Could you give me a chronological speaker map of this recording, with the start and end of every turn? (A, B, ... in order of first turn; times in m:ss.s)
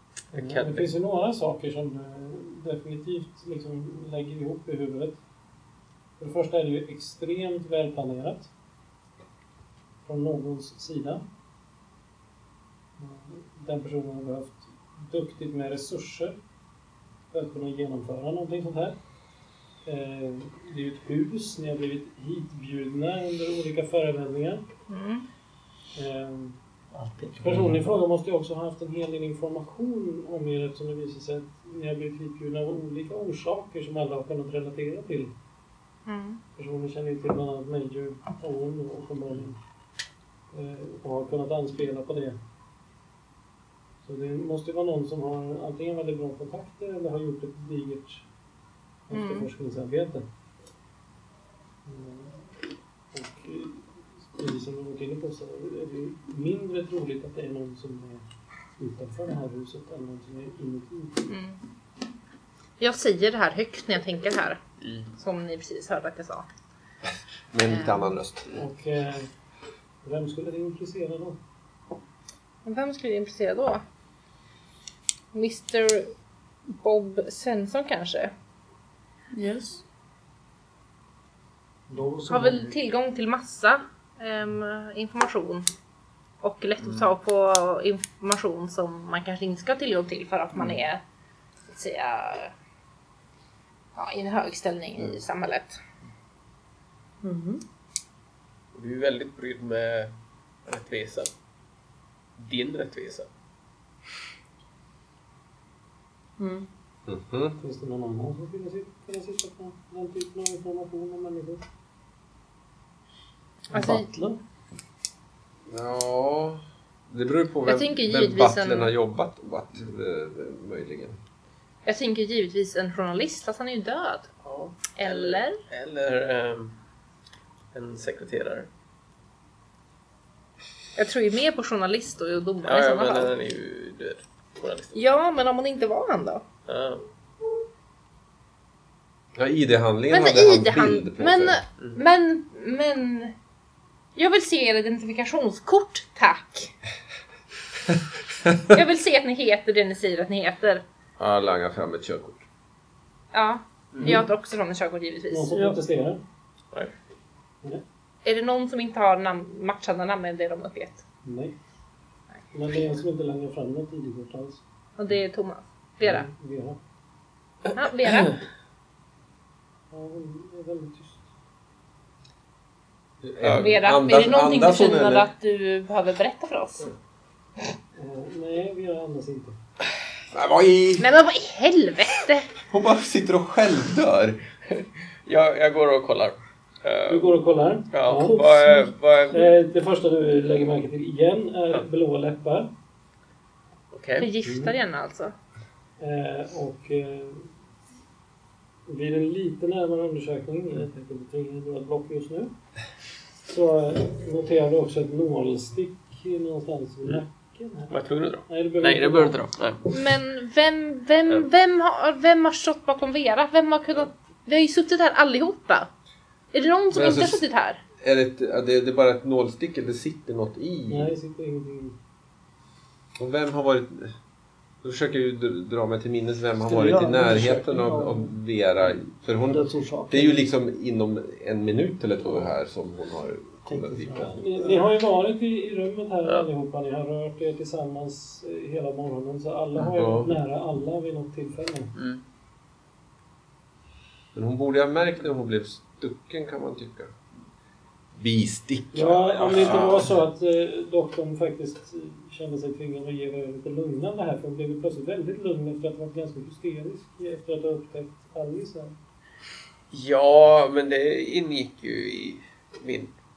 0:00.3-0:05.2 A
0:00.3-0:00.9 B
0:06.2-0:08.5 A
0:10.0-0:11.2 A
0:13.0-0:16.4 A
0:17.3-0:19.0 A
0:19.8-0:24.6 A
0:24.9-0:25.2 C
0:25.9-0:26.6 A
0:26.9-0:27.8 D
0:27.4-0:35.3 A
0:36.0-0:36.4 C
0:36.6-0:39.6 A
0:40.5-0:42.4 A
0:44.0-0:48.2 A
0:49.1-0:50.2 A
0:49.1-0:49.5 C
0:51.8-0:52.4 A
0:53.1-0:58.2 A
0:58.8-1:01.3 A
1:01.3-1:01.6 C
1:02.8-1:04.6 C
1:04.8-1:05.1 B
1:05.2-1:06.4 C
1:07.5-1:08.5 E
1:07.7-1:08.1 C
1:08.5-1:09.3 A
1:10.0-1:11.4 A
1:12.6-1:13.8 C
1:15.3-1:16.1 C
1:16.7-1:18.3 C
1:19.3-1:19.8 F
1:21.9-1:22.7 D
1:22.3-1:25.6 C
1:26.4-1:31.0 C
1:31.7-1:32.5 C
1:34.0-1:35.8 C
1:37.2-1:37.6 F
1:38.7-1:40.1 B
1:40.6-1:41.3 B
1:42.4-1:43.3 B
1:46.4-1:46.7 F
1:47.1-1:47.6 E
1:47.6-1:51.6 A
1:53.7-1:54.0 C
1:53.8-1:54.2 D
1:55.7-2:01.2 E
1:57.6-1:58.9 C
2:01.8-2:04.3 C
2:04.4-2:06.7 B
2:05.0-2:05.6 C
2:07.7-2:08.7 B
2:11.0-2:13.3 C
2:12.6-2:15.0 B
2:14.9-2:16.4 C
2:16.7-2:17.1 B
2:19.3-2:21.6 E
2:20.1-2:23.3 C
2:24.2-2:26.7 C
2:28.7-2:30.8 C
2:31.2-2:32.4 E
2:33.3-2:35.5 C
2:35.3-2:36.2 A
2:35.5-2:35.8 F
2:38.2-2:41.0 C
2:41.2-2:41.5 A
2:42.5-2:44.6 A
2:45.0-2:46.3 C
2:46.0-2:46.8 A
2:47.7-2:48.4 C
2:49.9-2:51.2 A
2:53.2-2:55.3 E
2:53.4-2:53.7 B
2:53.5-2:56.9 C
2:58.0-2:59.6 A
3:00.3-3:01.0 E
3:01.0-3:02.5 C
3:02.7-3:04.4 E
3:04.7-3:07.4 B
3:07.1-3:08.4 A
3:07.9-3:09.5 B
3:08.2-3:08.9 F
3:09.3-3:12.7 A
3:13.9-3:14.3 B
3:14.2-3:15.3 C
3:14.4-3:14.7 A
3:16.0-3:17.5 A
3:18.9-3:22.5 A
3:23.4-3:27.9 A
3:27.9-3:29.8 B
3:28.5-3:29.4 A
3:29.9-3:35.9 C
3:36.5-3:37.8 C
3:36.9-3:37.4 E
3:38.0-3:41.1 E
3:40.9-3:42.0 A
3:43.2-3:44.1 E
3:44.8-3:54.4 E
3:46.6-3:48.3 D
3:49.4-3:50.5 D
3:53.6-3:54.7 D
3:54.2-4:01.9 A
3:59.8-4:00.3 E
4:02.0-4:02.2 B
4:04.3-4:07.1 E
4:08.1-4:10.1 E
4:08.9-4:18.9 A
4:19.9-4:23.1 B